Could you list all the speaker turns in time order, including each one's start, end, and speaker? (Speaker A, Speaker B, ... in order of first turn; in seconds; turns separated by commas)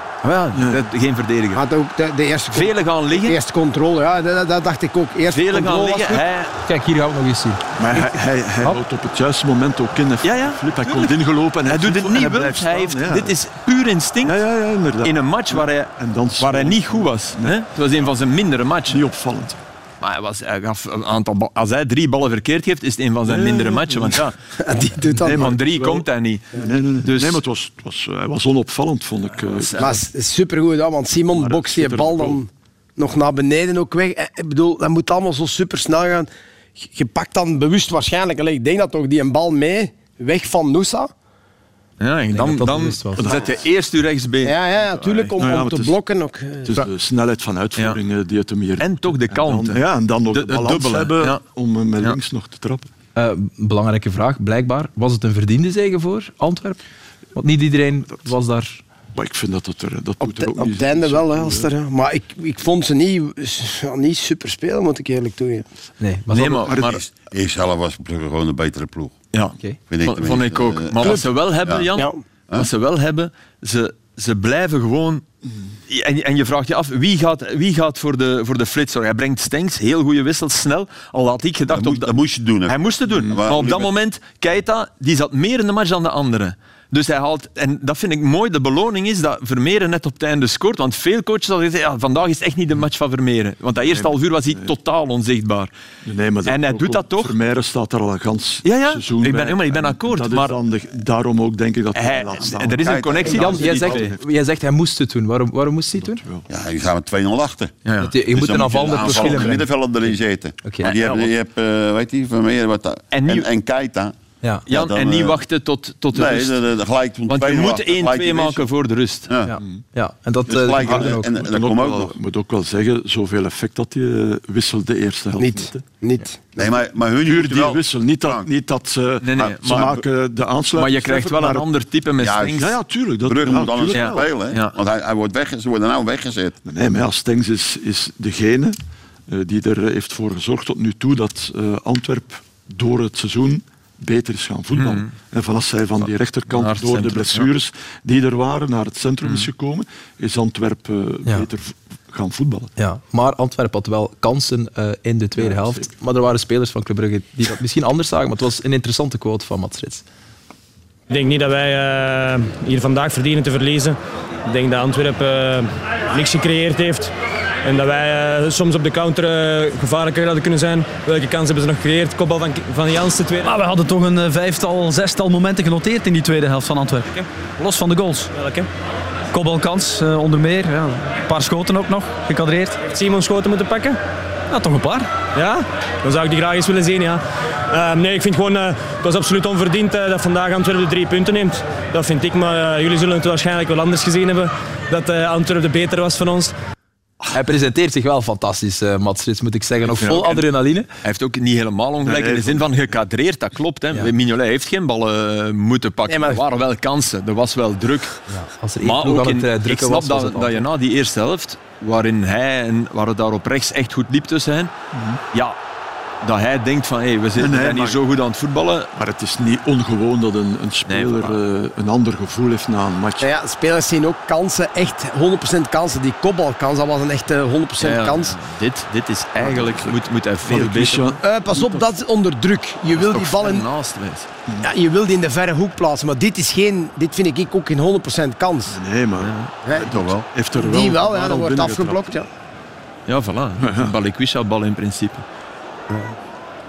Speaker A: 0.2-1.6, Speaker B: 0.6-0.8, Speaker C: 1.6-6.2, Speaker A: 2.5-3.4, Speaker A: 5.3-6.5, Speaker D: 6.7-8.1, Speaker B: 7.8-13.3, Speaker A: 10.2-11.2, Speaker A: 11.7-14.4, Speaker B: 14.2-17.5, Speaker A: 15.0-19.0, Speaker B: 18.9-19.6, Speaker A: 20.0-24.4, Speaker B: 23.3-24.2, Speaker C: 24.6-25.6, Speaker B: 25.2-30.0, Speaker A: 25.3-26.5, Speaker A: 27.0-27.4, Speaker C: 29.8-41.1, Speaker B: 31.3-32.4, Speaker A: 42.0-45.3, Speaker D: 42.3-43.4, Speaker B: 43.2-43.5, Speaker C: 44.5-46.9, Speaker B: 45.4-46.0, Speaker B: 46.7-52.9, Speaker A: 48.8-51.4, Speaker D: 53.2-56.8, Speaker D: 57.4-58.8, Speaker B: 59.1-61.7, Speaker C: 60.2-65.7, Speaker D: 66.0-66.7, Speaker A: 66.3-67.0, Speaker B: 66.7-67.0, Speaker E: 66.8-69.2, Speaker A: 69.3-75.2, Speaker E: 69.9-71.9, Speaker A: 75.9-82.2, Speaker E: 81.7-83.9, Speaker A: 82.7-95.7, Speaker B: 93.8-94.7, Speaker B: 96.0-104.2, Speaker A: 96.5-97.3, Speaker A: 98.7-100.6, Speaker A: 101.9-104.1, Speaker E: 102.8-103.3, Speaker D: 103.3-106.2, Speaker B: 106.1-106.5, Speaker E: 106.5-107.8, Speaker A: 107.8-108.1, Speaker D: 108.0-109.7, Speaker E: 108.3-114.2, Speaker D: 110.6-110.9, Speaker A: 110.8-111.3, Speaker A: 113.1-113.5, Speaker A: 114.7-116.6, Speaker E: 114.7-115.4, Speaker E: 116.1-118.7, Speaker A: 117.3-119.3, Speaker D: 119.5-121.3, Speaker E: 120.5-122.2, Speaker B: 120.8-125.8, Speaker C: 125.4-126.7, Speaker E: 126.6-128.5, Speaker B: 127.2-131.7, Speaker A: 129.2-129.9, Speaker E: 129.7-130.0, Speaker A: 130.7-132.7, Speaker E: 132.2-132.6, Speaker B: 132.6-134.3, Speaker E: 133.3-136.5, Speaker A: 133.9-134.7, Speaker B: 136.7-138.8, Speaker B: 139.3-152.7, Speaker A: 144.7-145.1, Speaker A: 146.5-147.5, Speaker D: 152.8-160.0, Speaker B: 155.4-155.9, Speaker F: 161.1-167.1, Speaker F: 167.6-173.5, Speaker G: 173.4-178.3, Speaker F: 178.3-178.7, Speaker G: 179.3-182.8, Speaker F: 182.9-184.0, Speaker G: 184.5-185.1, Speaker F: 185.3-196.5, Speaker D: 197.3-200.9, Speaker A: 200.0-200.4, Speaker A: 201.0-208.2, Speaker B: 202.0-202.7, Speaker C: 206.1-206.4, Speaker D: 208.3-210.6, Speaker A: 208.8-214.7, Speaker B: 214.9-215.2, Speaker A: 216.2-218.9, Speaker B: 217.4-218.0, Speaker B: 219.0-223.3, Speaker A: 220.9-221.4, Speaker C: 223.2-228.3, Speaker A: 227.8-231.2, Speaker B: 229.4-231.8, Speaker C: 231.2-233.7, Speaker A: 232.9-234.3, Speaker C: 234.6-238.8, Speaker B: 238.7-242.1, Speaker A: 239.2-239.5, Speaker C: 239.7-242.3, Speaker E: 239.8-240.3, Speaker A: 243.1-245.2, Speaker B: 243.6-243.9, Speaker C: 245.9-246.2